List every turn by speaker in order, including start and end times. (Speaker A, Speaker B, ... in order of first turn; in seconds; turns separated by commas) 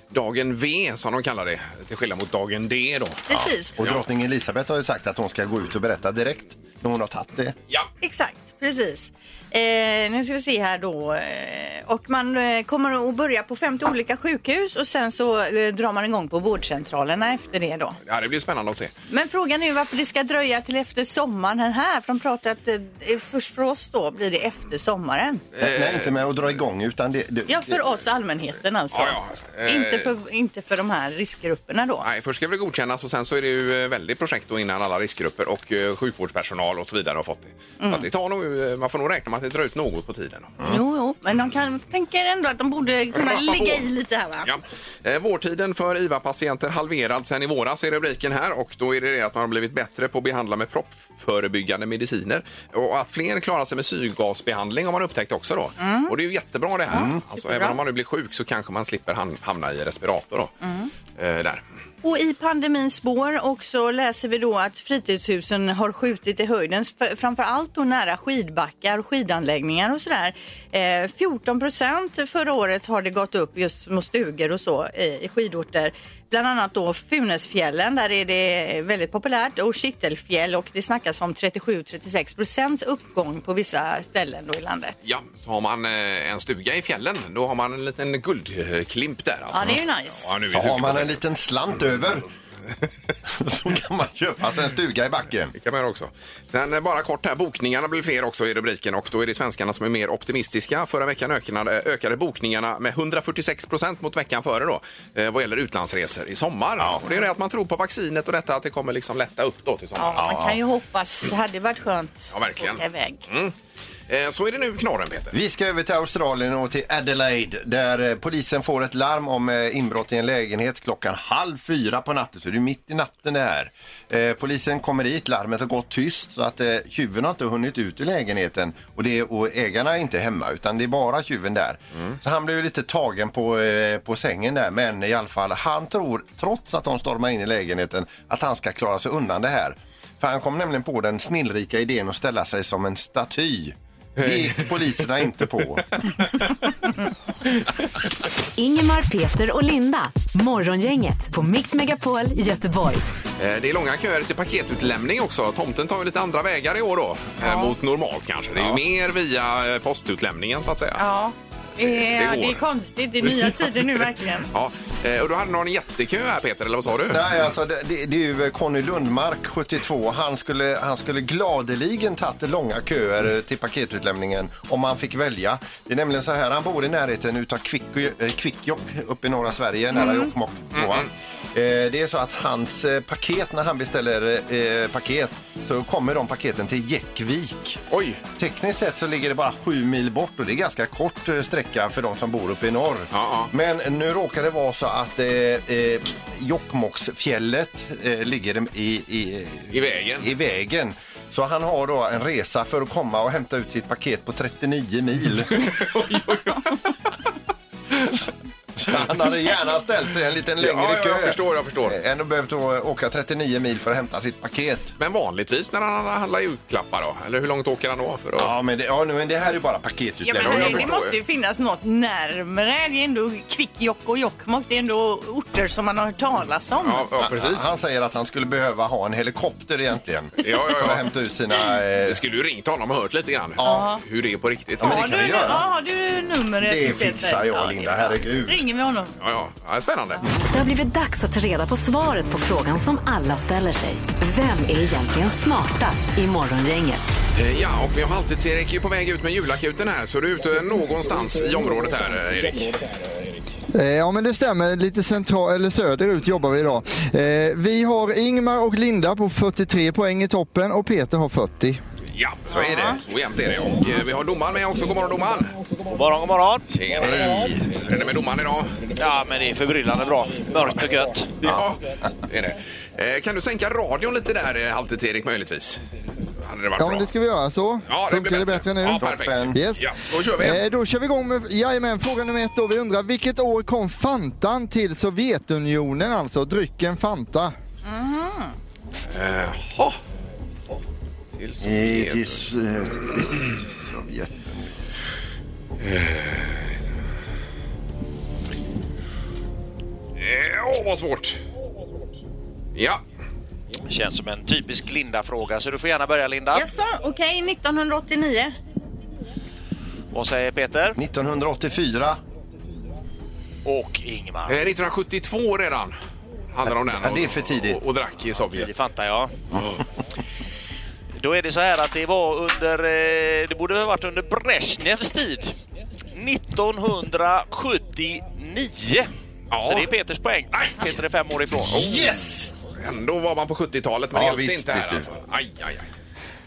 Speaker A: 0.1-4.0, Speaker B: 3.3-3.7, Speaker C: 3.8-7.6, Speaker B: 8.0-18.0, Speaker A: 18.1-18.9, Speaker B: 19.1-25.4, Speaker A: 25.6-26.1, Speaker C: 25.6-27.8, Speaker B: 27.5-32.0, Speaker A: 28.9-30.1, Speaker A: 32.0-40.6, Speaker B: 37.8-38.1, Speaker B: 40.6-44.5, Speaker A: 43.1-43.9, Speaker A: 44.5-60.5, Speaker B: 55.8-56.1, Speaker C: 56.9-57.2, Speaker B: 56.9-57.8, Speaker B: 60.6-60.9, Speaker A: 61.1-61.6, Speaker B: 62.0-85.0, Speaker A: 85.0-91.2, Speaker B: 89.5-90.3, Speaker C: 90.5-92.2, Speaker C: 93.3-95.5, Speaker A: 95.5-110.3, Speaker B: 110.0-113.2, Speaker C: 110.2-110.6, Speaker A: 112.3-113.5, Speaker A: 114.1-115.3, Speaker C: 115.3-145.9, Speaker A: 144.2-144.7, Speaker D: 148.6-153.0, Speaker A: 153.4-161.0, Speaker B: 157.4-157.7, Speaker B: 161.0-164.5, Speaker A: 161.8-162.6, Speaker A: 164.5-167.3, Speaker C: 167.1-187.8, Speaker B: 180.0-180.3, Speaker A: 180.7-181.1, Speaker A: 187.9-188.2, Speaker C: 188.4-205.7, Speaker A: 193.1-193.5, Speaker A: 199.7-200.3, Speaker A: 205.5-206.9, Speaker C: 208.8-214.9, Speaker A: 210.6-212.0, Speaker A: 215.0-218.5, Speaker C: 218.4-220.9, Speaker B: 220.2-227.1, Speaker A: 220.4-221.2, Speaker A: 226.8-227.7, Speaker C: 227.2-232.2, Speaker A: 230.4-231.1, Speaker A: 232.0-235.4, Speaker B: 233.6-234.0, Speaker C: 234.8-235.7, Speaker B: 234.8-239.1, Speaker C: 236.6-238.7, Speaker A: 239.2-240.3, Speaker D: 240.4-247.1, Speaker A: 247.3-252.8, Speaker E: 253.7-261.8, Speaker A: 262.1-265.6, Speaker B: 262.5-263.0, Speaker F: 265.9-266.6, Speaker A: 266.7-268.8, Speaker C: 267.0-267.7, Speaker F: 269.0-271.4, Speaker A: 271.4-275.8, Speaker A: 276.4-277.1, Speaker E: 276.8-287.6, Speaker A: 277.9-280.6, Speaker C: 279.0-279.6, Speaker B: 287.9-288.5, Speaker A: 289.1-290.0, Speaker A: 291.4-292.4, Speaker C: 291.6-294.8, Speaker A: 295.8-296.7, Speaker A: 300.2-301.4, Speaker A: 302.8-303.0, Speaker F: 303.9-306.7, Speaker B: 306.5-308.6, Speaker F: 310.1-311.0, Speaker C: 311.0-312.2, Speaker F: 313.7-314.6, Speaker A: 314.5-316.0, Speaker A: 316.5-318.7, Speaker C: 316.9-317.8, Speaker F: 318.5-319.3, Speaker F: 321.2-325.6, Speaker F: 326.1-332.1, Speaker A: 329.5-329.9, Speaker A: 330.5-330.9, Speaker C: 331.7-332.5, Speaker A: 331.8-332.1, Speaker A: 332.8-335.9, Speaker C: 334.1-335.1